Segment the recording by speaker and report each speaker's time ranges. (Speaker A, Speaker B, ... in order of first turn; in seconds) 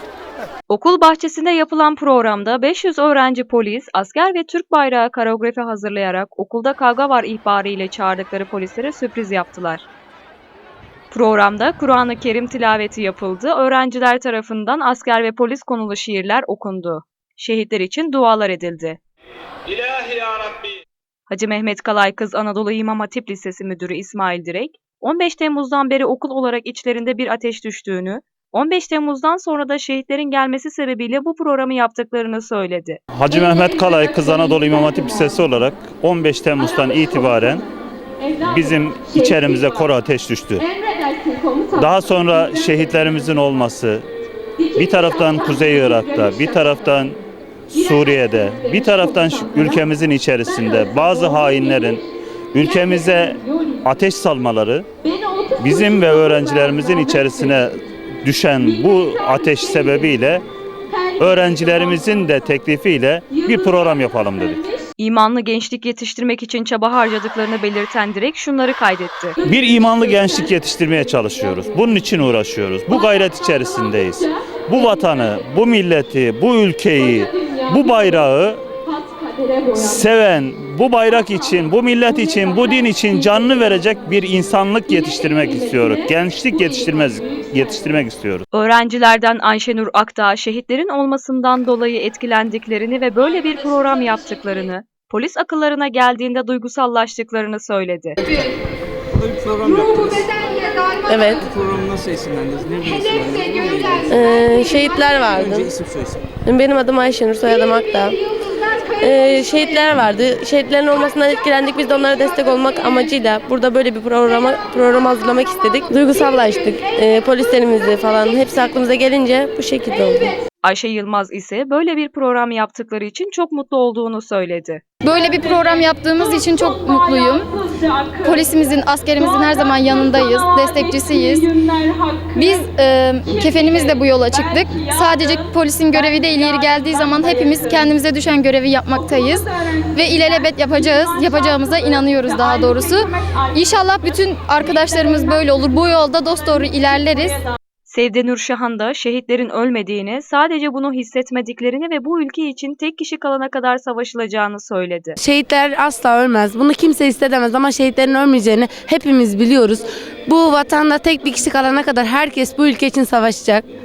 Speaker A: 0.7-9.9, 11.1-19.0, 21.3-33.0, 65.0-69.4, 88.5-98.2, 120.6-124.8, 147.9-155.2
Speaker B: 33.1-37.7, 38.4-40.7, 41.7-44.1, 44.7-54.9, 55.5-60.5, 61.2-64.7, 69.4-78.6, 79.7-88.5
Speaker C: 99.2-100.9, 101.4-104.2, 105.3-106.3
Speaker D: 101.1-101.4, 104.1-105.7, 106.4-108.2, 109.0-120.3
Speaker E: 125.0-127.5, 128.2-131.5, 132.3-147.4
Speaker F: 155.2-163.6